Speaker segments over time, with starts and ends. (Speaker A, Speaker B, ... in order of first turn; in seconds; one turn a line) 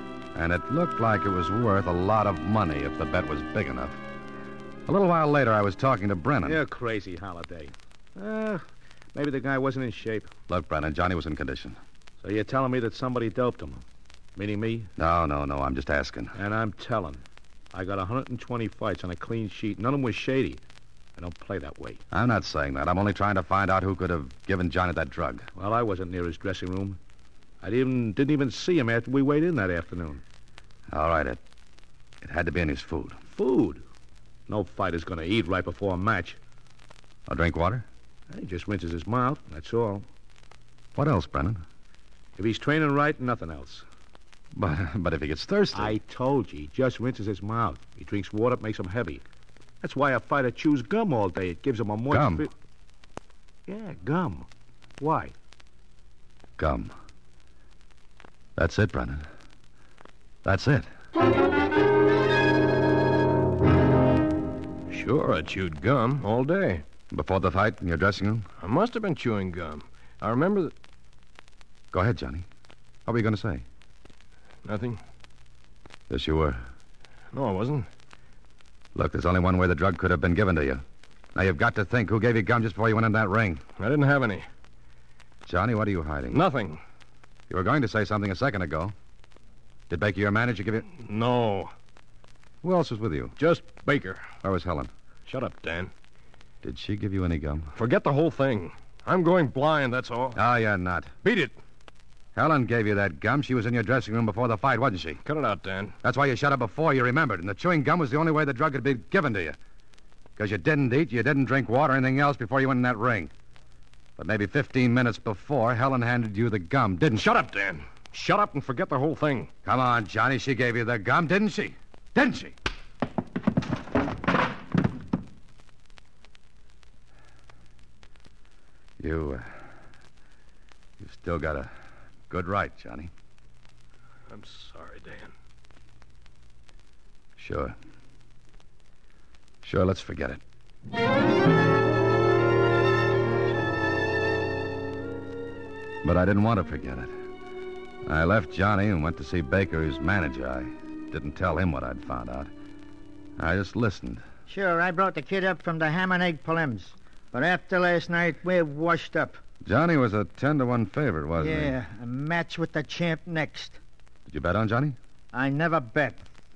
Speaker A: 0.3-4.0
Speaker A: 4.9-6.6
Speaker B: 6.4-10.3
Speaker A: 10.5-11.8
Speaker B: 12.2-13.8
Speaker B: 14.3-14.9
Speaker A: 15.0-16.3
Speaker B: 16.3-20.6
Speaker B: 21.2-22.0
Speaker A: 22.1-25.5
Speaker B: 25.6-27.0
Speaker B: 27.6-30.2
Speaker A: 30.9-31.4
Speaker A: 32.2-33.2
Speaker B: 33.3-33.8
Speaker B: 34.5-36.4
Speaker A: 37.3-37.9
Speaker B: 38.3-40.0
Speaker A: 40.9-41.6
Speaker B: 42.4-43.8
Speaker A: 44.5-46.0
Speaker B: 45.7-49.2
Speaker B: 49.8-52.5
Speaker A: 52.1-52.5
Speaker B: 53.7-54.5
Speaker B: 55.0-55.3
Speaker A: 56.6-56.9
Speaker A: 58.5-59.2
Speaker A: 60.4-60.9
Speaker C: 64.9-66.8
Speaker A: 67.1-68.5
Speaker C: 68.6-70.7
Speaker A: 71.9-72.5
Speaker A: 73.0-73.6
Speaker C: 74.6-75.0
Speaker A: 76.1-76.6
Speaker C: 77.3-77.9
Speaker A: 78.9-80.8
Speaker A: 81.3-83.6
Speaker C: 83.8-84.5
Speaker A: 85.5-86.4
Speaker C: 86.3-86.8
Speaker A: 87.5-88.9
Speaker A: 89.9-90.9
Speaker C: 90.9-91.7
Speaker A: 92.6-93.3
Speaker C: 93.4-94.2
Speaker A: 94.4-94.9
Speaker C: 95.2-95.9
Speaker A: 96.6-97.7
Speaker C: 97.7-100.4
Speaker A: 100.3-101.1
Speaker C: 101.2-101.5
Speaker A: 102.3-105.2
Speaker C: 105.2-106.0
Speaker A: 106.0-109.6
Speaker A: 110.3-113.3
Speaker A: 114.2-117.3
Speaker C: 117.1-119.5
Speaker A: 119.6-122.5
Speaker A: 129.0-129.4
Speaker A: 131.0-131.7
Speaker A: 132.3-133.1
Speaker C: 134.3-135.3
Speaker A: 137.4-137.7
Speaker A: 139.6-140.4
Speaker A: 146.0-147.1
Speaker A: 148.1-152.5
Speaker A: 153.4-154.2
Speaker D: 154.5-159.4
Speaker A: 159.6-161.7
Speaker D: 161.4-163.8
Speaker A: 164.3-164.9
Speaker D: 165.3-166.2